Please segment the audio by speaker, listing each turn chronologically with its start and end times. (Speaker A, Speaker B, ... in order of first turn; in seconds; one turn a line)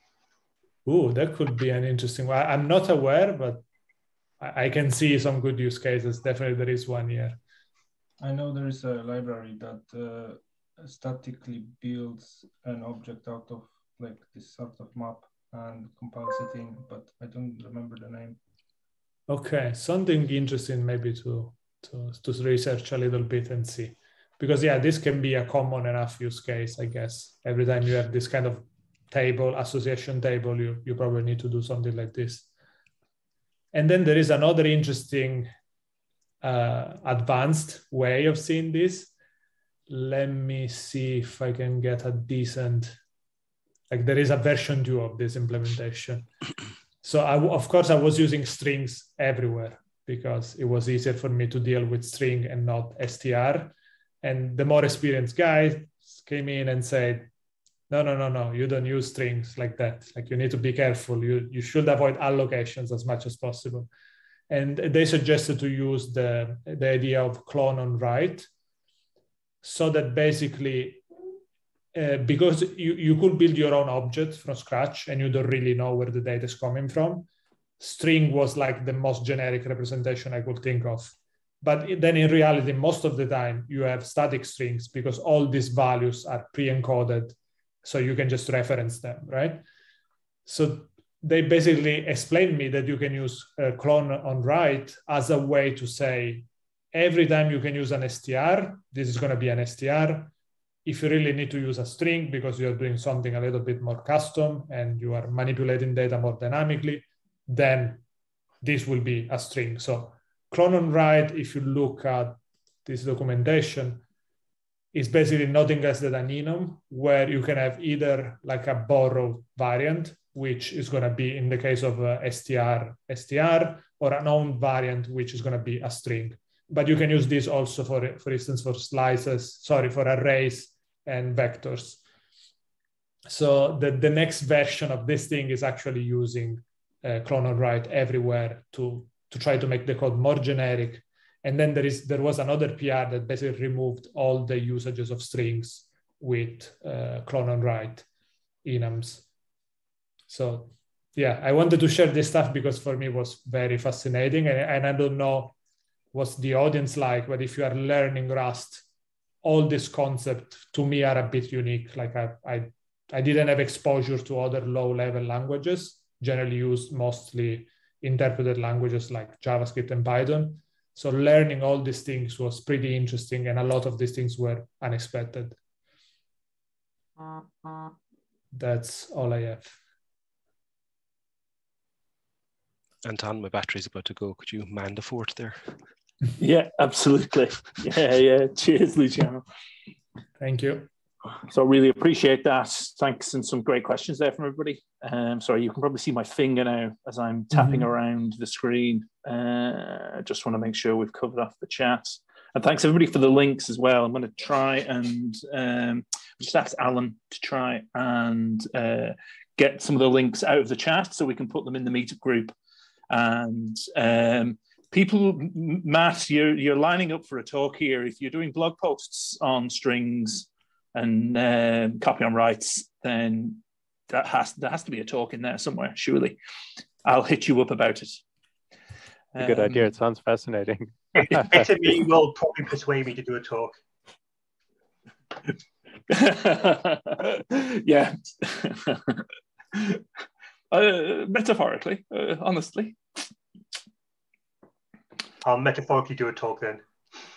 Speaker A: 0.8-3.6
Speaker A: 4.4-7.4
Speaker B: 8.2-18.4
Speaker A: 19.3-32.5
Speaker A: 33.7-35.5
Speaker A: 36.4-39.1
Speaker A: 39.9-43.0
Speaker A: 43.9-46.2
Speaker A: 47.0-57.3
Speaker A: 57.9-63.9
Speaker A: 64.5-68.5
Speaker A: 69.6-71.0
Speaker A: 71.9-77.3
Speaker A: 77.8-89.6
Speaker A: 90.5-100.3
Speaker A: 100.8-108.0
Speaker A: 108.6-114.0
Speaker A: 114.9-132.0
Speaker A: 133.3-148.1
Speaker A: 148.6-149.2
Speaker A: 150.3-155.5
Speaker A: 156.1-158.9
Speaker A: 159.4-175.6
Speaker A: 178.5-179.8
Speaker C: 183.0-185.6
Speaker D: 186.4-189.4
Speaker A: 190.4-190.9
Speaker D: 191.5-212.5
Speaker A: 197.5-197.8
Speaker D: 213.1-226.3
Speaker D: 227.0-228.2
Speaker D: 229.3-229.8
Speaker E: 229.4-231.6
Speaker F: 231.1-233.8
Speaker D: 236.1-240.0
Speaker D: 240.7-243.2
Speaker F: 245.4-246.8